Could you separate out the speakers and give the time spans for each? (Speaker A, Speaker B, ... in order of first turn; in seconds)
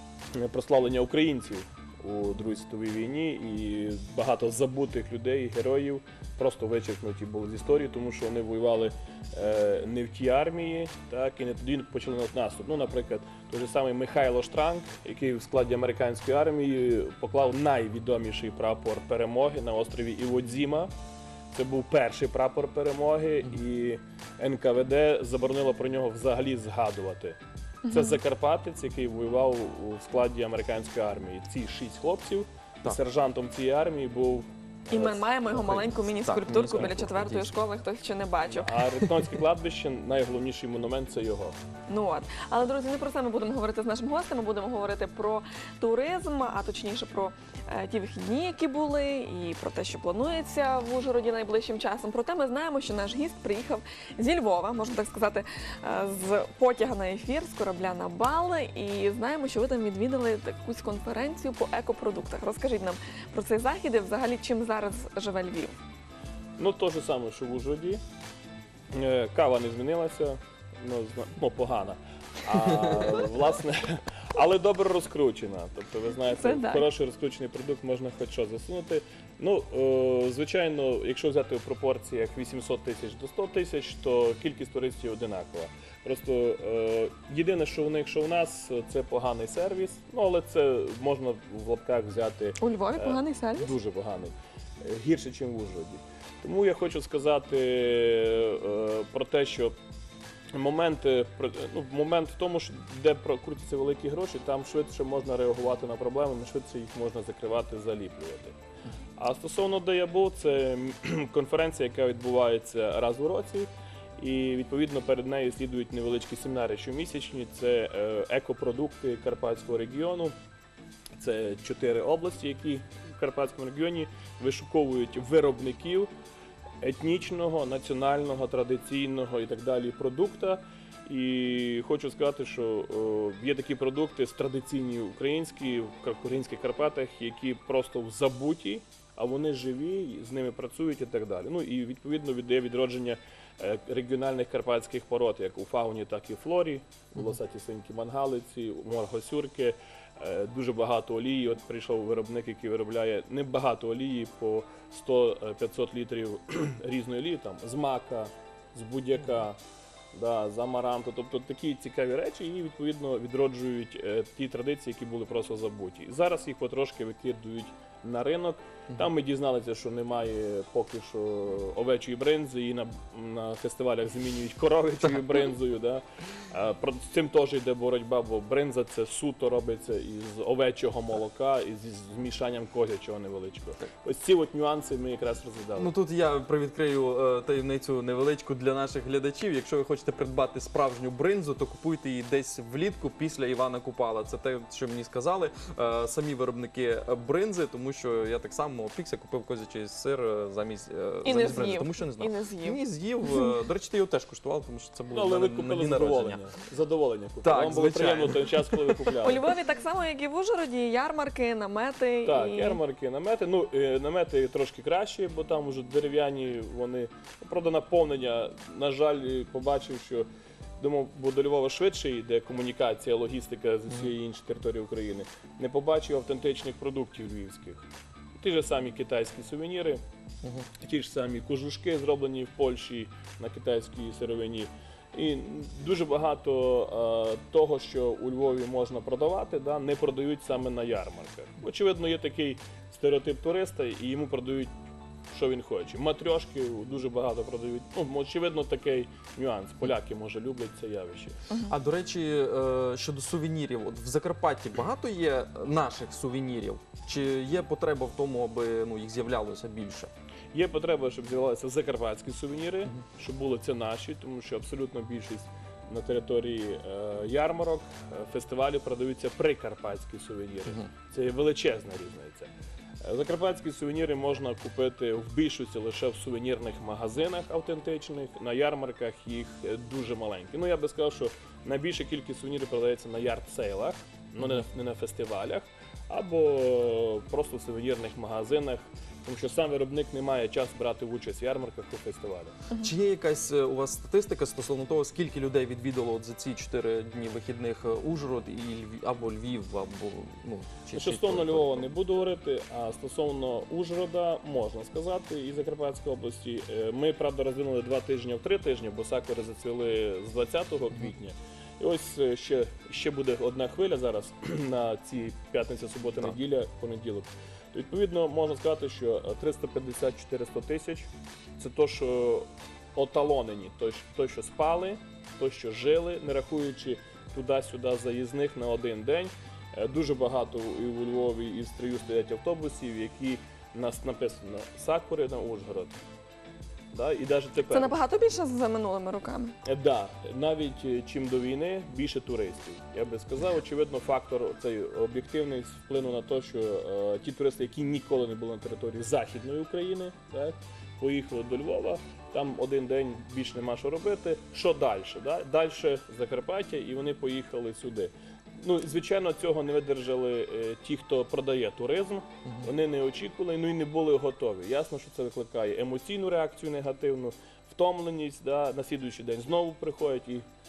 Speaker A: 0.3-20.9, 21.5-27.4, 27.9-36.0, 38.5-41.6, 66.6-68.0, 68.9-99.8, 100.5-108.6, 109.2-120.3, 121.2-126.1, 126.8-159.6, 160.1-185.9, 205.1-209.4, 212.2-220.3, 220.8-230.0, 230.8-244.7, 245.3-251.4, 260.5-272.5, 273.0-292.6, 300.9-336.0, 336.9-337.9, 339.6-370.4
Speaker B: 27.8-28.2, 34.9-38.8, 41.9-65.8, 76.3-76.9, 92.6-93.7, 201.2-203.5, 209.2-212.8, 337.7-339.6
Speaker C: 36.2-37.6, 185.8-206.4, 207.4-209.1, 251.7-260.1, 292.8-301.9, 362.4-362.7